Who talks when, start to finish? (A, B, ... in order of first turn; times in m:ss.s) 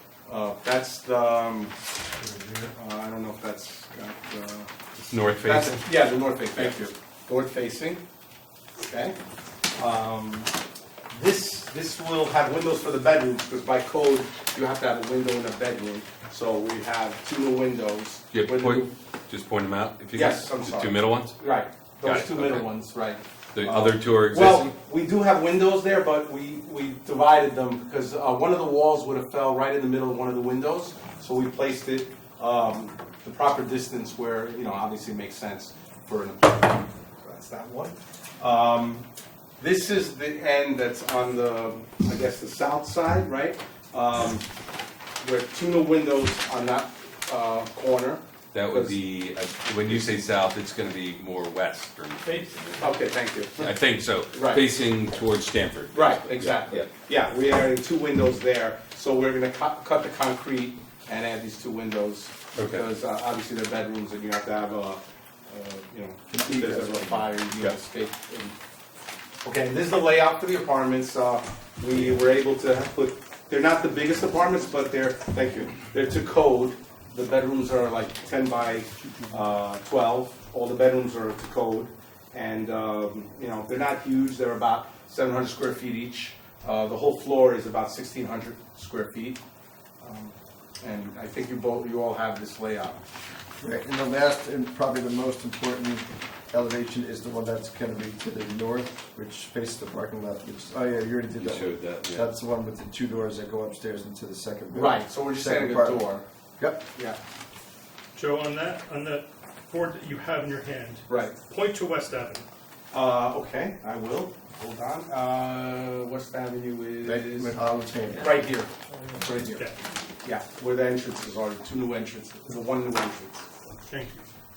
0:00.3-0:01.7 A
0:02.5-0:04.7 A
0:05.0-0:06.8 B
0:05.4-0:08.0 A
0:08.8-0:09.2 A
0:09.7-0:10.5 A
0:11.1-0:18.9 A
0:18.3-0:21.4 B
0:20.1-0:37.8 A
0:22.0-0:22.9 B
0:23.5-0:24.7 B
0:38.4-0:39.1 A
0:39.6-0:44.5 A
0:45.2-0:49.0 A
0:48.5-0:52.8 B
0:49.9-0:50.2 A
0:52.2-0:52.9 C
0:52.8-0:53.7 A
0:53.5-0:56.9 B
0:54.3-0:54.6 A
0:55.9-1:08.6 A
1:02.5-1:02.8 B
1:06.4-1:07.3 D
1:09.4-1:29.4 A
1:30.0-1:33.0 A
1:33.6-1:46.8 D
1:41.4-1:42.3 B
1:44.7-1:46.2 A
1:48.1-1:52.5 C
1:51.1-1:51.3 A
1:52.9-1:57.6 A
1:57.0-1:58.5 D
1:58.1-1:59.7 A
1:59.1-1:59.8 C
2:00.2-2:03.5 A
2:03.8-2:04.2 C